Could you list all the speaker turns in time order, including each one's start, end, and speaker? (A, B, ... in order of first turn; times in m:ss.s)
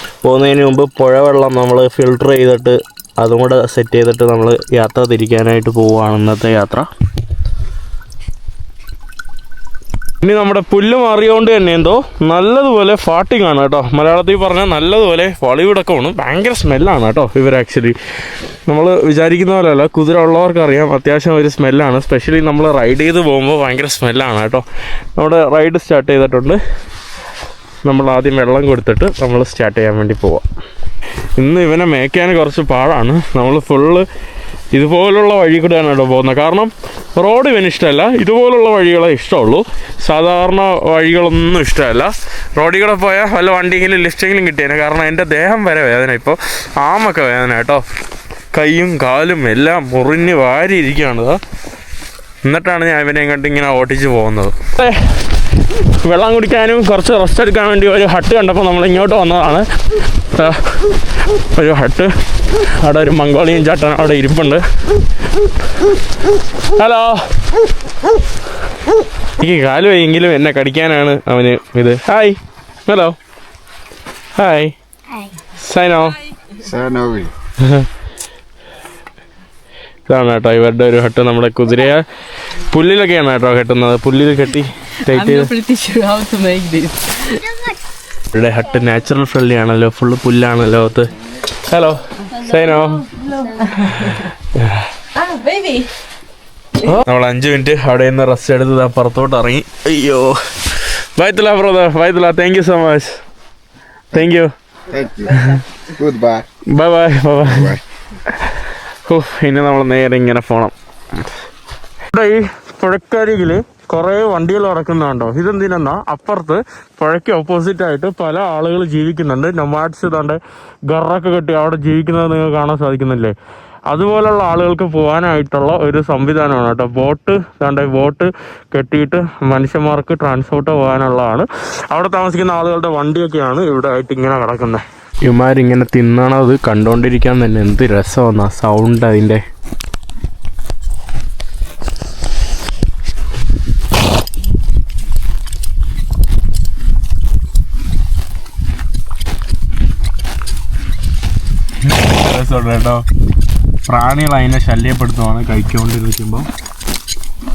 0:00.2-0:06.9 A
0:10.2-0:18.0 A
0:18.7-0:24.6 A
0:25.2-0:26.6 A
0:27.8-0:30.4 A
0:31.4-0:34.1 A
0:34.7-0:47.8 A
0:48.5-0:51.4 A
0:52.4-0:55.0 A
0:56.0-0:59.7 A
1:00.3-1:00.9 A
1:01.5-1:04.6 A
1:06.7-1:07.3 A
1:09.4-1:13.2 A
1:14.4-1:14.7 A
1:15.6-1:16.2 A
1:16.6-1:17.3 B
1:17.6-1:17.9 A
1:20.1-1:22.0 A
1:22.7-1:25.5 A
1:25.1-1:27.7 C
1:28.3-1:31.1 A
1:31.6-1:33.0 A
1:33.1-1:34.2 C
1:33.9-1:34.9 A
1:35.1-1:35.9 C
1:36.8-1:43.2 A
1:44.1-1:44.5 A
1:44.9-1:46.4 B
1:46.7-1:47.8 A
1:47.5-1:47.8 B
1:48.3-1:50.7 A
1:52.1-2:03.3 A
2:03.9-2:19.4 A
2:31.9-2:33.0 A
2:33.8-2:36.5 A